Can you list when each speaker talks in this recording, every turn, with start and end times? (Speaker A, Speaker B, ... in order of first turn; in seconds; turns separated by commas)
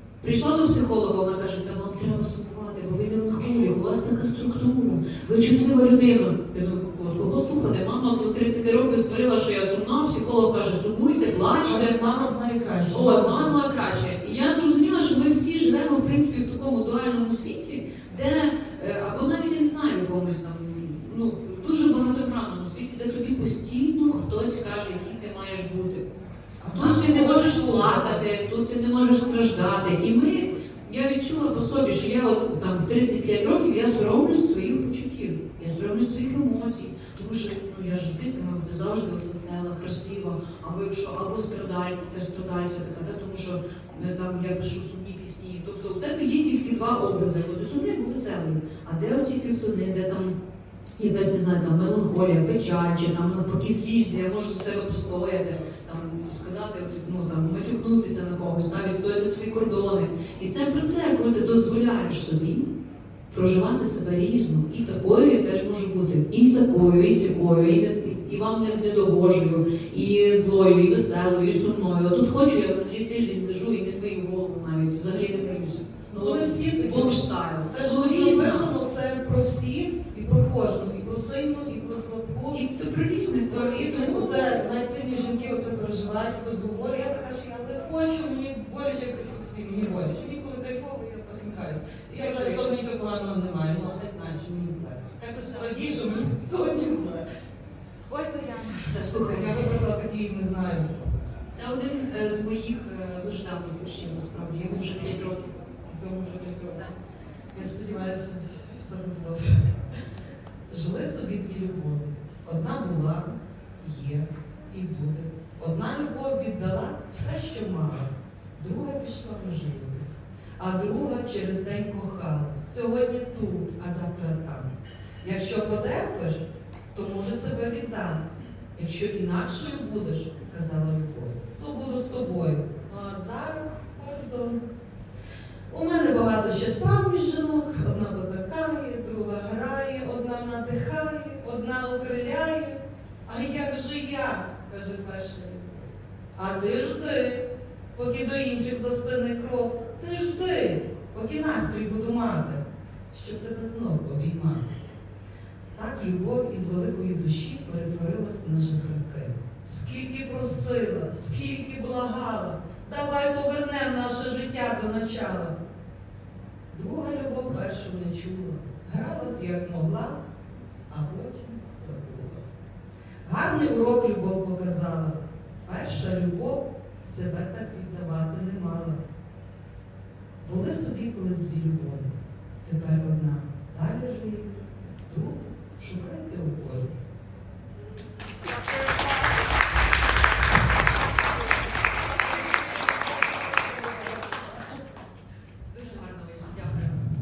Speaker A: 0.2-12.0, Speaker B: 11.6-13.9, Speaker A: 12.9-26.1, Speaker B: 26.6-28.2, Speaker A: 26.8-50.4, Speaker A: 51.0-62.7, Speaker A: 63.3-78.7, Speaker B: 76.1-82.6, Speaker A: 82.5-84.6, Speaker B: 83.5-97.3, Speaker A: 92.2-92.7, Speaker B: 98.1-101.0, Speaker A: 98.9-99.6, Speaker A: 101.5-105.5, Speaker B: 105.9-106.9, Speaker B: 107.5-109.8, Speaker B: 110.7-120.1, Speaker B: 120.6-134.6, Speaker B: 135.7-154.7, Speaker B: 155.8-165.6, Speaker B: 166.7-170.2, Speaker B: 170.9-172.4, Speaker B: 173.2-179.0, Speaker B: 180.4-182.1, Speaker B: 182.6-186.9, Speaker A: 195.7-197.0